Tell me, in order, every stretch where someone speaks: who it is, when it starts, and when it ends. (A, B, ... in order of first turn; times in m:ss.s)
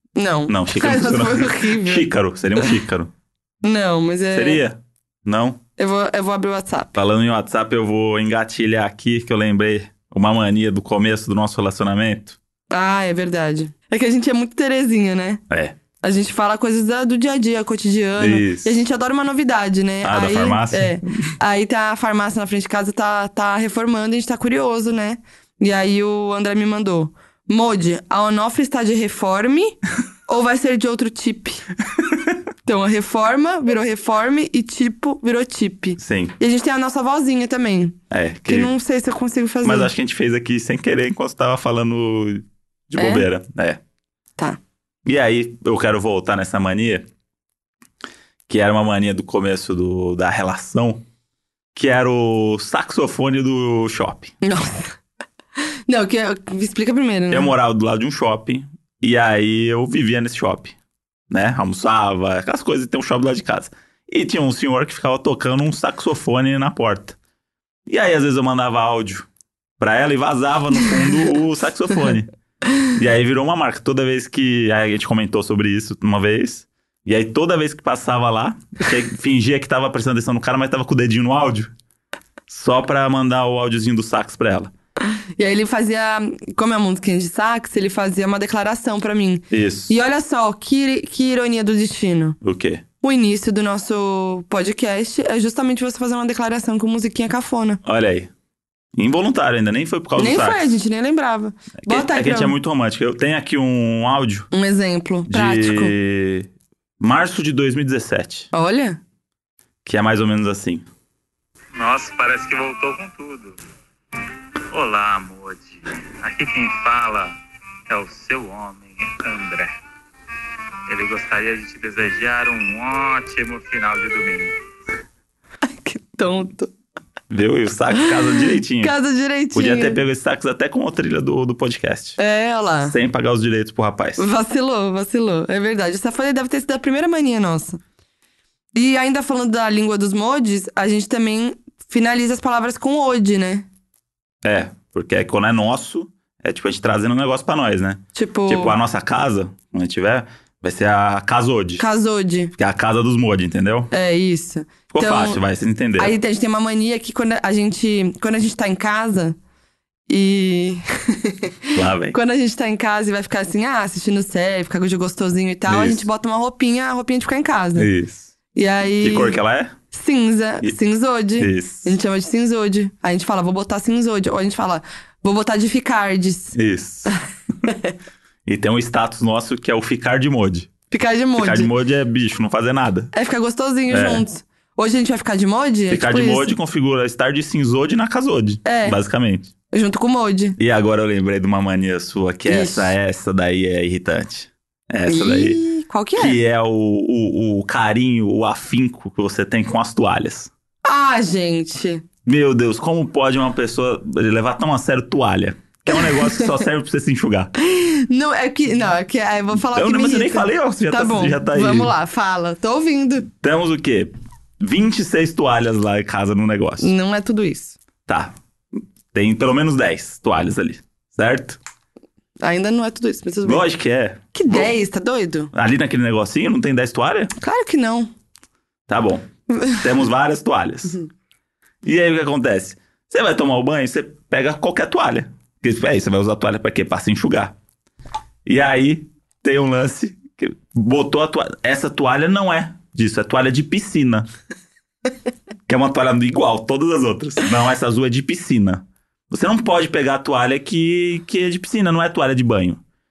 0:00.2-0:02.7 A
0:00.5-0:03.1 B
0:03.6-0:04.6 A
0:04.3-0:05.6 B
0:05.8-0:07.0 A
0:07.0-0:12.4 B
0:12.7-0:15.4 A
0:15.5-0:15.8 B
0:16.0-0:31.6 A
0:18.2-0:18.8 B
0:20.0-0:21.3 B
0:32.6-0:39.9 A
0:36.0-0:36.4 B
0:38.1-0:38.7 B
0:39.6-0:43.8 B
0:43.0-0:43.3 A
0:45.0-0:47.1 B
0:48.5-0:51.0 B
0:51.8-0:54.4 B
0:54.4-0:54.9 A
0:55.9-0:57.5 A
0:57.3-1:00.8 B
1:01.3-1:07.2 B
1:07.9-1:09.3 B
1:09.8-1:12.3 B
1:12.8-1:21.7 B
1:22.5-1:24.7 B
1:25.2-1:32.4 A
1:29.5-1:29.9 B
1:32.4-1:32.8 B
1:33.0-1:37.8 A
1:37.8-1:38.3 B
1:39.0-1:40.8 B
1:40.2-1:42.6 A
1:41.8-1:44.5 B
1:44.5-1:45.9 A
1:45.3-1:48.5 B
1:48.5-1:49.0 A
1:49.8-1:50.9 B
1:51.8-1:53.6 C
1:54.7-1:57.4 C
1:57.9-1:59.7 C
2:00.9-2:04.5 C
2:05.6-2:06.7 A
2:07.3-2:09.0 B
2:07.9-2:10.0 A
2:09.5-2:12.2 B
2:12.2-2:13.0 A
2:12.8-2:14.2 B
2:14.2-2:17.8 A
2:18.7-2:23.7 A
2:24.4-2:31.8 B
2:28.2-2:28.8 A
2:31.8-2:32.5 A
2:32.6-2:33.9 B
2:33.9-2:35.4 A
2:34.9-2:36.1 B
2:36.0-2:39.4 A
2:40.1-2:47.9 A
2:41.8-2:42.2 B
2:45.7-2:46.1 B
2:47.8-2:48.3 B
2:48.5-2:49.4 A
2:49.0-2:49.8 B
2:49.9-2:56.6 A
2:51.4-2:51.9 B
2:56.5-2:57.2 B
2:57.6-2:57.9 A
2:58.5-3:00.7 B
3:00.9-3:01.7 A
3:01.4-3:03.1 B
3:03.1-3:06.6 A
3:03.9-3:04.2 B
3:05.9-3:09.5 B
3:08.6-3:09.0 A
3:09.7-3:10.6 A
3:10.6-3:15.6 B
3:12.5-3:12.9 A
3:15.1-3:16.4 A
3:16.2-3:20.5 B
3:20.8-3:22.0 A
3:22.3-3:27.5 B
3:25.9-3:26.5 A
3:27.6-3:33.3 A
3:29.6-3:31.9 B
3:33.3-3:36.9 B
3:36.8-3:37.8 A
3:38.1-3:41.6 B
3:42.4-3:43.6 A
3:43.4-3:44.7 B
3:44.3-3:45.5 A
3:45.5-3:47.3 B
3:47.4-3:48.1 A
3:48.9-3:51.0 B
3:49.5-3:49.8 A
3:51.8-3:57.6 B
3:58.5-4:04.3 B
4:05.7-4:12.8 B